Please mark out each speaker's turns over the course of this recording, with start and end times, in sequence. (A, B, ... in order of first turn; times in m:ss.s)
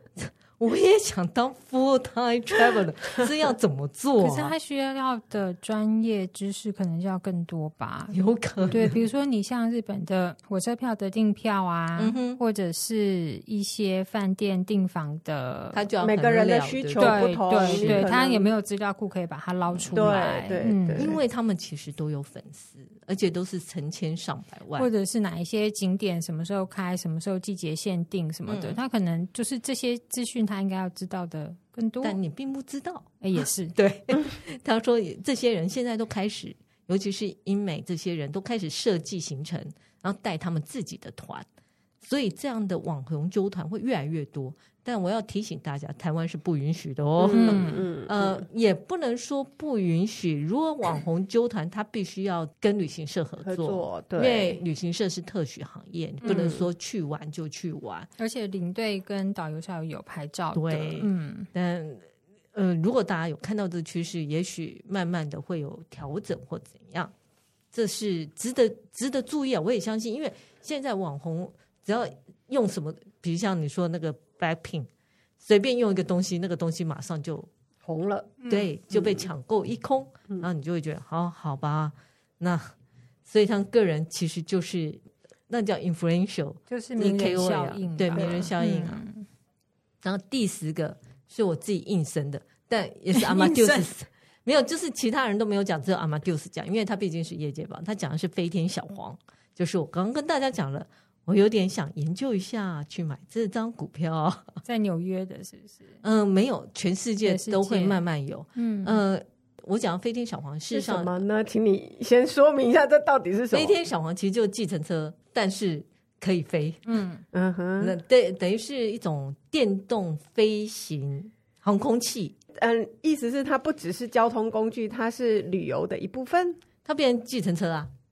0:00.2-0:04.5 A
0:04.2-0:08.2 B
0:08.1-0:09.0 A
0:08.7-0:15.8 B
0:12.0-0:12.4 A
0:15.7-0:18.1 A
0:16.0-0:18.5 C
0:17.0-0:21.1 B
0:19.7-0:20.2 A
0:19.9-0:21.2 C
0:21.0-0:24.9 A
0:24.8-0:32.2 B
0:28.5-0:28.8 A
0:32.0-0:41.5 A
0:33.2-0:33.8 B
0:42.0-0:58.1 A
0:47.2-0:48.4 C
0:47.3-0:47.8 B
0:53.4-0:54.6 C
0:56.2-0:56.5 B
0:56.3-0:56.7 C
0:58.2-1:01.5 B
1:00.5-1:07.1 A
1:07.7-1:14.9 A
1:15.4-1:17.5 A
1:17.8-1:18.3 C
1:18.4-1:18.7 B
1:18.5-1:22.7 A
1:18.9-1:19.3 C
1:23.3-1:29.0 A
1:26.7-1:29.3 B
1:28.2-1:28.5 C
1:30.0-1:44.6 A
1:33.1-1:33.9 B
1:44.6-1:46.0 B
1:46.0-1:51.2 A
1:47.2-1:48.0 B
1:48.6-1:49.0 B
1:50.7-1:53.8 C
1:53.5-1:56.8 A
1:56.9-1:57.2 B
1:57.3-1:58.0 C
1:57.8-2:02.4 A
2:02.6-2:06.6 C
2:06.8-2:07.9 A